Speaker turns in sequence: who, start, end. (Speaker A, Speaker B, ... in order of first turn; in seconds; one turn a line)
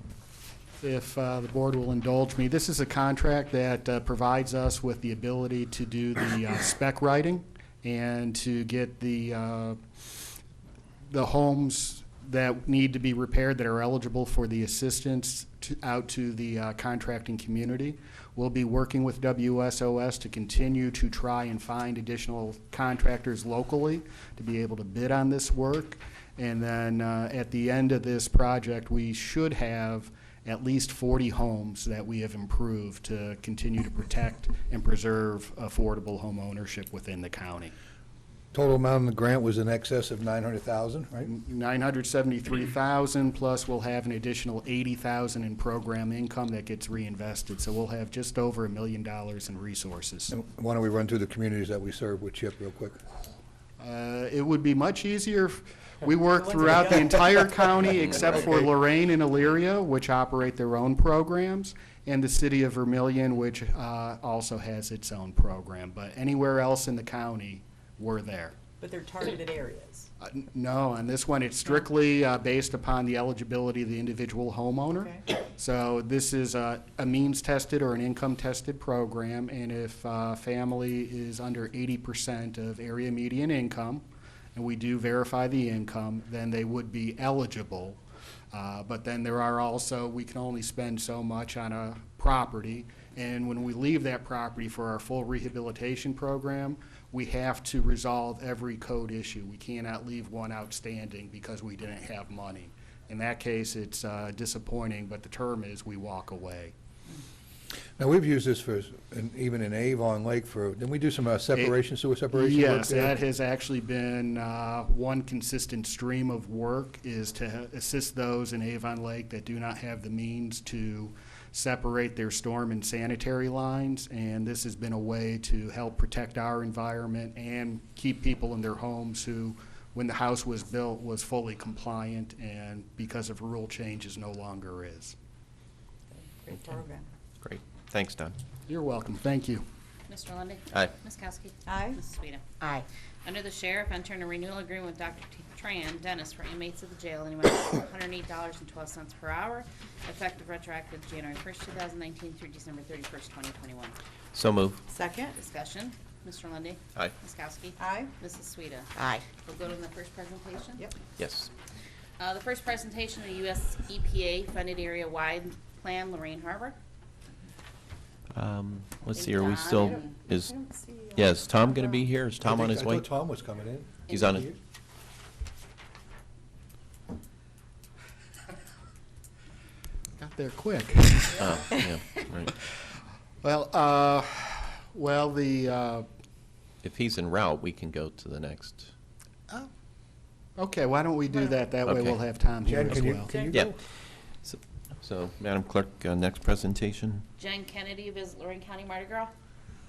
Speaker A: 0.8-9.8
Speaker A: 11.1-37.7
Speaker B: 38.5-41.3
Speaker A: 41.3-50.3
Speaker B: 50.3-53.0
Speaker A: 53.8-68.6
Speaker C: 56.6-57.1
Speaker C: 68.8-70.1
Speaker A: 70.2-84.0
Speaker A: 84.5-88.0
Speaker A: 88.5-106.7
Speaker B: 108.0-113.2
Speaker A: 112.3-135.2
Speaker C: 136.2-137.1
Speaker D: 137.4-138.4
Speaker A: 138.7-139.6
Speaker E: 140.1-142.7
Speaker C: 141.7-142.0
Speaker E: 143.2-154.0
Speaker D: 154.3-154.8
Speaker C: 154.9-155.3
Speaker E: 155.3-160.9
Speaker C: 157.8-158.1
Speaker D: 161.2-161.5
Speaker E: 162.2-166.8
Speaker D: 168.3-170.6
Speaker E: 169.2-170.2
Speaker C: 170.3-171.3
Speaker D: 171.1-173.1
Speaker B: 172.4-174.6
Speaker D: 174.1-174.5
Speaker A: 180.2-181.4
Speaker D: 181.4-182.5
Speaker A: 183.4-186.1
Speaker D: 186.8-188.9
Speaker A: 190.6-193.4
Speaker D: 191.8-192.2
Speaker B: 192.7-193.7
Speaker C: 193.3-193.6
Speaker D: 194.4-197.2
Speaker E: 197.4-199.3